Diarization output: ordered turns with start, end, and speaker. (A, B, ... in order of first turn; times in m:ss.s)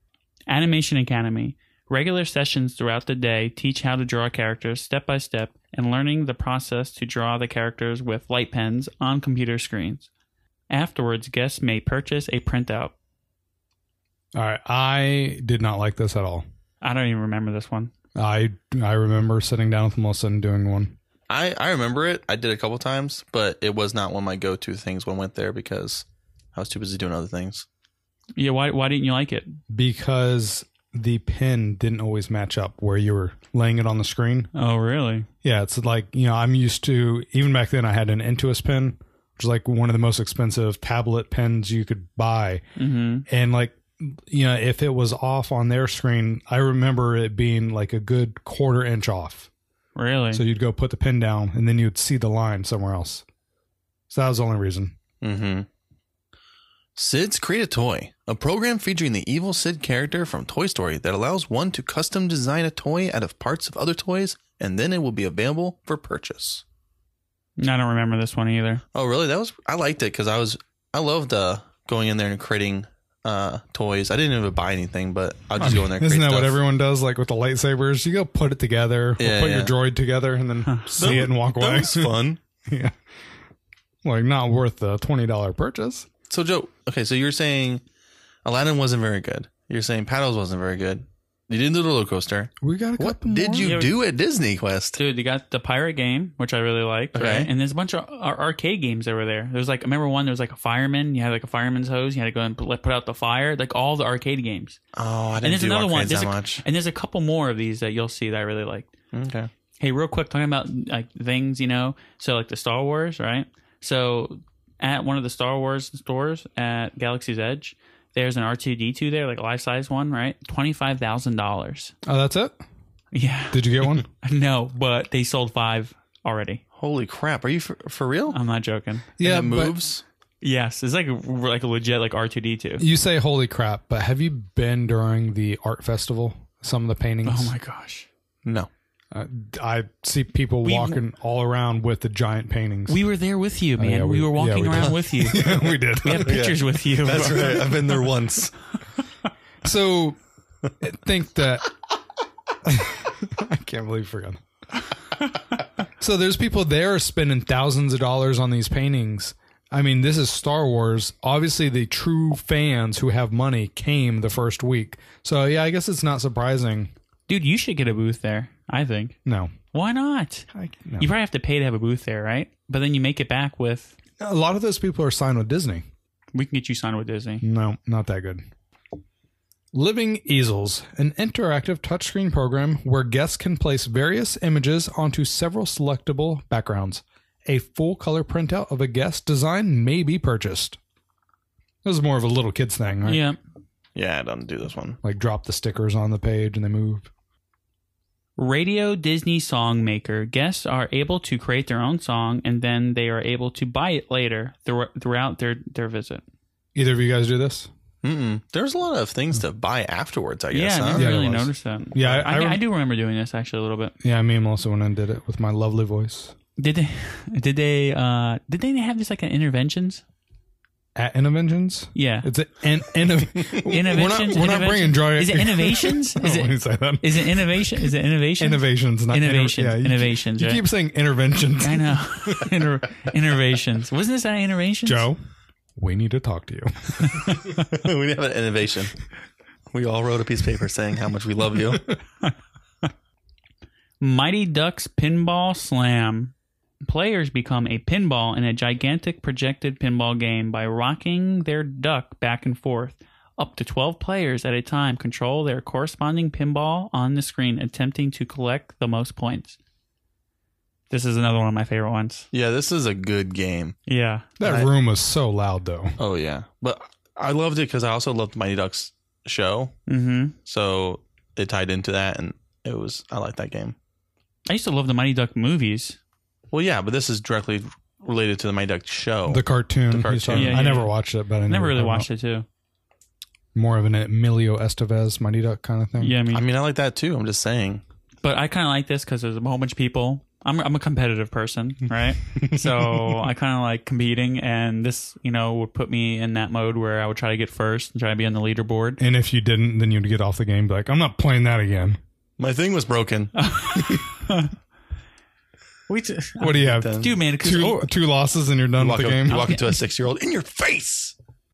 0:00.5-0:10.1 A
0:10.7-0:12.9 A
0:14.3-0:16.4 B
0:16.8-0:17.9 A
0:18.2-0:21.0 B
0:21.3-0:27.6 C
0:28.4-0:29.6 A
0:29.7-0:34.5 B
0:34.5-0:35.3 A
0:35.4-0:42.6 B
0:42.8-0:43.2 A
0:43.3-0:49.5 B
0:49.9-0:50.4 A
0:50.3-0:53.2 B
0:54.1-0:55.0 B
0:55.2-0:55.7 C
0:57.0-1:06.6 C
1:07.6-1:08.8 A
1:08.9-1:16.6 C
1:15.6-1:22.1 B
1:19.2-1:19.7 C
1:21.0-1:22.4 C
1:22.6-1:23.0 B
1:24.0-1:26.1 B
1:26.3-1:27.8 C
1:28.4-1:35.0 C
1:32.6-1:33.8 B
1:33.6-1:33.9 A
1:35.0-1:44.8 A
1:37.1-1:37.5 C
1:44.9-1:46.6 C
1:45.4-1:48.9 A
1:49.1-1:49.5 C
1:49.8-2:01.9 A
2:02.0-2:02.6 B
2:03.1-2:06.6 A
2:03.5-2:04.0 B
2:06.8-2:08.4 C
2:08.3-2:09.1 A
2:09.2-2:09.8 B
2:09.2-2:10.0 C
2:10.4-2:12.8 A
2:12.8-2:17.5 B
2:17.2-2:18.1 A
2:19.1-2:23.0 B
2:20.6-2:21.0 A
2:22.9-2:25.4 A
2:23.8-2:26.4 B
2:25.3-2:28.5 C
2:26.0-2:27.6 A
2:27.1-2:27.7 B
2:29.6-2:30.2 B
2:30.8-2:31.7 B
2:32.6-2:34.4 B
2:36.0-2:46.9 B
2:47.3-2:49.2 A
2:49.2-2:49.5 B
2:49.7-2:50.5 A
2:50.5-2:51.1 B
2:51.0-2:53.9 A
2:54.2-2:55.8 B
2:56.3-2:57.4 A
2:57.4-2:58.5 B
2:59.7-3:10.8 B
3:11.8-3:13.2 B
3:13.0-3:13.4 A
3:14.0-3:15.0 C
3:15.0-3:17.1 B
3:18.4-3:26.2 A
3:26.7-3:27.7 B
3:28.0-3:31.2 C
3:30.5-3:33.9 A
3:30.9-3:32.6 B
3:34.0-3:36.3 B
3:36.6-3:40.0 A
3:41.0-3:52.5 B
3:41.9-3:42.3 A
3:43.6-3:50.6 A
3:51.6-3:55.1 A
3:54.8-3:55.2 B
3:55.8-3:57.3 B
3:57.0-3:57.5 A
3:57.6-3:58.9 C
3:59.7-4:01.9 C
4:04.0-4:19.6 A
4:20.9-4:22.3 A
4:22.3-4:23.8 C
4:23.9-4:24.2 A
4:24.4-4:26.0 B
4:24.4-4:24.7 C
4:26.0-4:29.8 C
4:29.9-4:30.3 A
4:30.4-4:33.7 C
4:34.5-4:36.0 A
4:36.5-4:40.7 C
4:39.3-4:42.1 B
4:40.3-4:40.9 A
4:41.5-4:42.4 A
4:43.5-4:46.1 B
4:46.0-4:46.4 A
4:46.3-4:47.8 C
4:48.2-4:59.0 A
4:52.4-4:53.0 C
4:59.0-5:02.0 B
5:02.4-5:03.3 C
5:03.3-5:04.5 A
5:05.9-5:07.9 A
5:06.4-5:09.4 B
5:06.5-5:07.2 C
5:08.8-5:11.2 C
5:09.3-5:09.7 A